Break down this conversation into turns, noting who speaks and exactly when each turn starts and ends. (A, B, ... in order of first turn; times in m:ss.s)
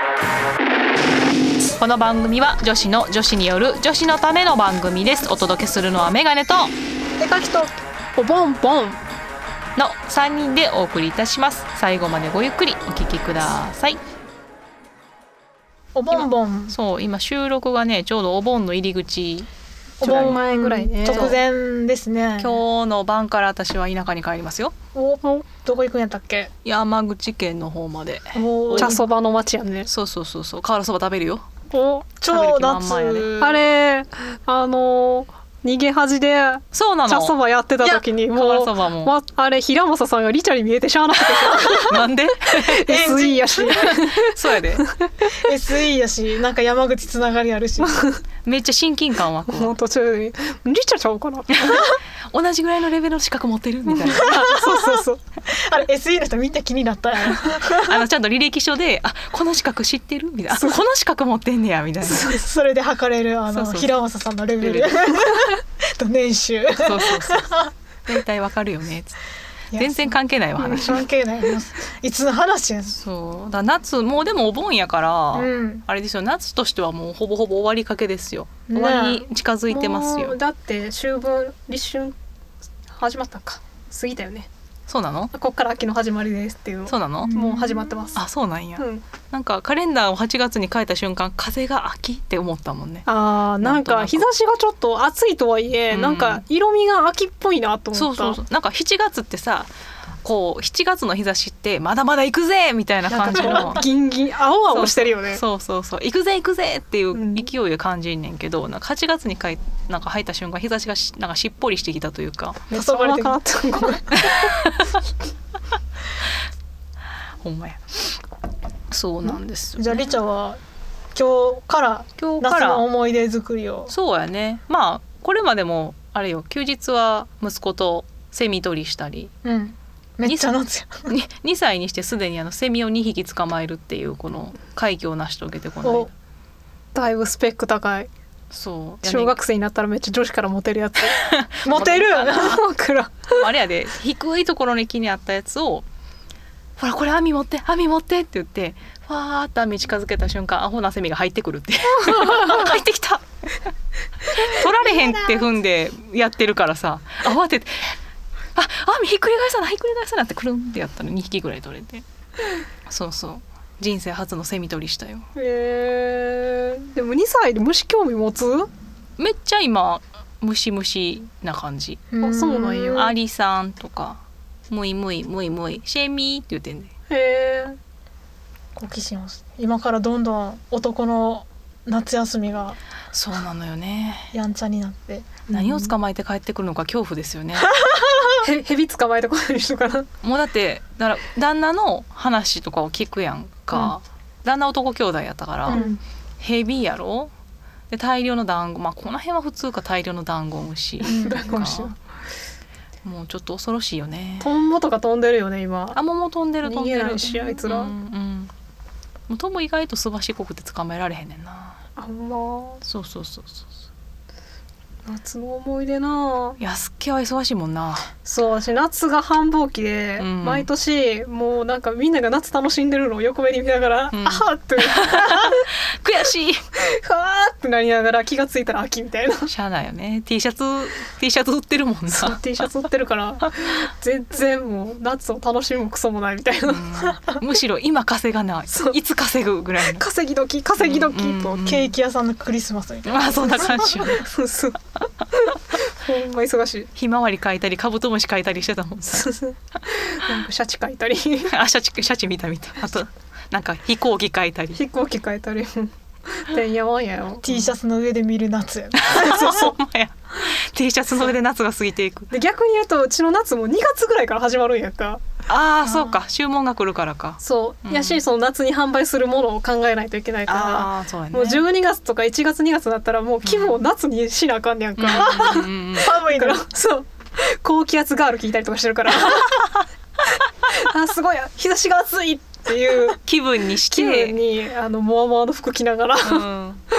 0:01.8-0:06.7 A
0:07.2-0:07.7 B
0:08.2-0:09.0 C
0:09.8-0:14.0 A
0:15.9-0:16.7 B
0:16.1-0:19.5 A
0:20.0-0:21.4 C
0:20.0-0:22.6 B
0:21.0-0:21.3 A
0:22.4-0:24.7 A
0:24.9-0:26.5 B
0:26.6-0:29.0 A
0:28.3-0:29.0 B
0:28.8-0:29.9 C
0:29.8-0:31.4 A
0:31.7-0:32.1 C
0:32.2-0:33.5 B
0:32.3-0:33.3 A
0:33.4-0:45.5 C
0:36.7-0:37.4 A
0:38.3-0:39.1 A
0:41.8-0:43.1 A
0:42.9-0:43.8 B
0:44.2-0:44.8 A
0:45.4-0:48.0 B
0:47.8-0:48.2 C
0:48.4-0:49.7 A
0:49.5-0:51.9 C
0:51.5-0:54.4 A
0:53.8-0:55.2 C
0:55.5-0:58.0 B
0:57.6-1:02.3 A
1:00.5-1:00.8 C
1:02.0-1:02.4 C
1:02.4-1:07.7 B
1:03.5-1:04.0 A
1:04.6-1:05.4 A
1:06.7-1:07.5 A
1:08.0-1:09.2 A
1:09.7-1:13.0 B
1:09.7-1:11.0 A
1:12.9-1:20.4 A
1:15.3-1:15.8 B
1:18.7-1:19.2 B
1:19.7-1:22.1 C
1:22.9-1:24.5 C
1:24.9-1:25.3 A
1:25.3-1:28.2 C
1:26.9-1:27.3 A
1:27.2-1:28.2 B
1:28.2-1:33.1 A
1:28.8-1:29.0 C
1:33.0-1:38.4 C
1:33.6-1:34.3 A
1:35.9-1:36.4 A
1:37.9-1:39.7 A
1:40.2-1:43.8 A
1:43.1-1:43.8 B
1:43.2-1:45.4 C
1:44.7-1:52.7 A
1:47.1-1:47.5 C
1:52.7-1:54.5 C
1:52.7-1:53.8 B
1:54.2-1:54.9 A
1:57.4-1:57.8 A
1:58.9-2:00.2 A
1:59.8-2:00.6 B
2:01.1-2:03.9 B
2:02.2-2:02.8 A
2:03.9-2:09.3 A
2:09.4-2:11.1 B
2:10.2-2:10.5 A
2:11.1-2:16.1 A
2:15.8-2:16.1 B
2:16.9-2:18.1 C
2:18.5-2:19.4 A
2:19.0-2:21.2 C
2:21.1-2:22.5 A
2:21.6-2:22.5 B
2:21.8-2:23.4 C
2:23.3-2:25.8 A
2:26.8-2:33.2 A
2:32.0-2:32.5 C
2:34.3-2:37.9 A
2:38.6-2:42.0 A
2:42.8-2:45.2 A
2:45.4-2:48.7 C
2:49.2-2:52.0 A
2:52.1-2:53.1 B
2:52.2-2:53.1 C
2:52.8-2:56.9 A
2:57.1-2:57.8 C
2:58.7-3:02.8 B
3:03.1-3:04.3 A
3:04.3-3:05.4 B
3:05.5-3:07.7 A
3:05.6-3:05.8 C
3:07.9-3:08.4 B
3:08.4-3:10.1 C
3:10.2-3:15.8 A
3:15.7-3:16.0 C
3:15.7-3:16.0 B
3:16.4-3:17.3 A
3:17.9-3:21.9 A
3:21.0-3:22.0 C
3:23.0-3:24.5 A
3:24.4-3:26.0 C
3:25.9-3:28.5 A
3:26.6-3:27.9 C
3:29.3-3:31.8 A
3:32.0-3:32.8 C
3:32.8-3:33.7 A
3:35.0-3:36.6 C
3:36.6-3:38.1 A
3:38.2-3:45.7 C
3:40.2-3:40.7 A
3:44.1-3:46.6 A
3:46.8-3:49.5 C
3:49.5-3:52.4 A
3:52.1-3:57.1 C
3:56.6-4:00.0 A
3:58.7-3:59.0 C
3:59.8-4:01.7 C
4:00.8-4:01.9 A
4:01.7-4:03.8 B
4:03.0-4:04.2 A
4:03.8-4:06.9 C
4:06.9-4:09.3 A
4:09.1-4:11.5 C
4:11.5-4:14.8 A
4:14.7-4:17.4 C
4:17.4-4:19.7 B
4:17.5-4:17.7 A
4:19.0-4:22.3 A
4:22.3-4:25.2 C
4:25.5-4:28.2 A
4:25.9-4:26.2 B
4:27.4-4:39.8 C
4:30.4-4:31.6 A
4:33.4-4:33.8 A
4:35.0-4:36.2 A
4:36.0-4:36.5 B
4:40.4-4:43.2 C
4:43.2-4:44.4 A
4:43.8-4:46.5 C
4:46.2-4:46.8 A